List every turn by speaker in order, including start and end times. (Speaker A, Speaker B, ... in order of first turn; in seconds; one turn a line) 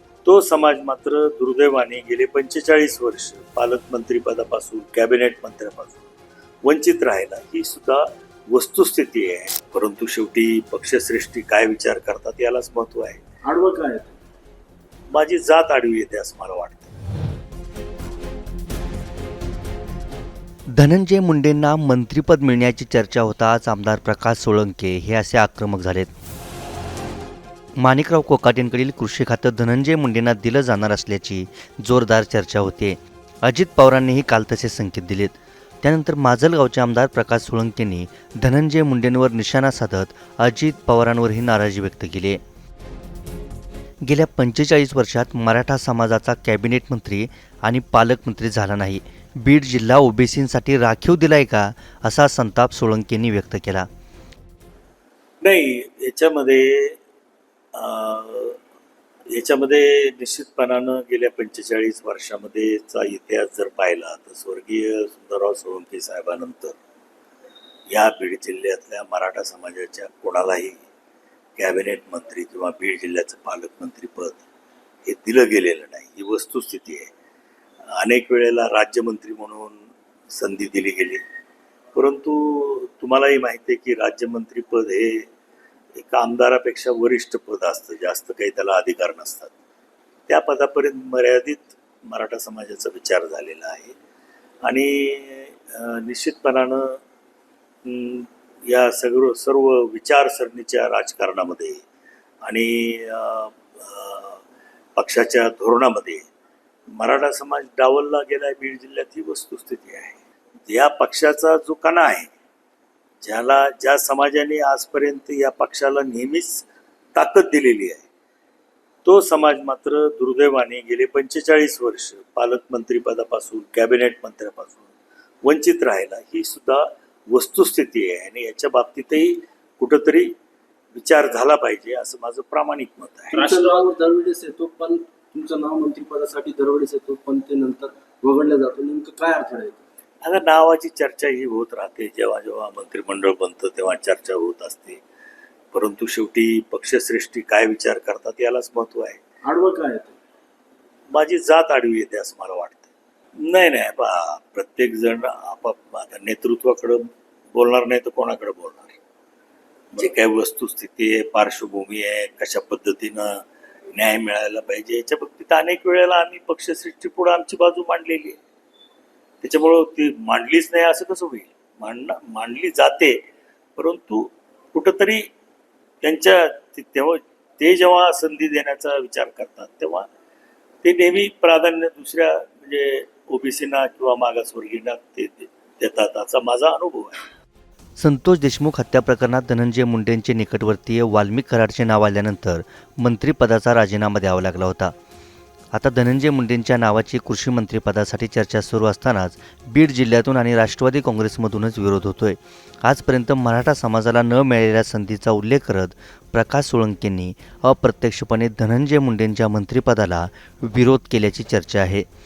Speaker A: 0.2-6.0
Speaker A: 6.7-13.2
Speaker B: 13.4-14.1
Speaker A: 15.1-16.9
Speaker C: 20.8-26.1
Speaker C: 27.8-42.4
Speaker C: 44.0-53.9
Speaker A: 55.4-57.0
Speaker A: 57.8-58.6
Speaker A: 59.3-66.8
Speaker A: 67.9-70.8
Speaker A: 71.6-74.4
Speaker A: 75.0-77.1
Speaker A: 78.0-81.2
Speaker A: 81.9-85.3
Speaker A: 86.0-89.5
Speaker A: 90.3-94.0
Speaker A: 94.7-97.0
Speaker A: 97.9-101.8
Speaker A: 102.5-104.4
Speaker A: 105.0-106.2
Speaker A: 107.0-112.3
Speaker A: 113.2-118.1
Speaker A: 119.0-124.9
Speaker A: 125.4-130.3
Speaker A: 130.9-133.5
Speaker B: 133.3-139.8
Speaker A: 140.2-145.0
Speaker A: 145.7-149.2
Speaker B: 149.4-150.2
Speaker A: 151.1-159.0
Speaker A: 159.9-163.4
Speaker A: 163.9-168.4
Speaker A: 169.4-173.2
Speaker A: 173.8-175.3
Speaker A: 176.0-180.1
Speaker A: 180.8-187.3
Speaker C: 188.0-194.9
Speaker C: 195.7-212.1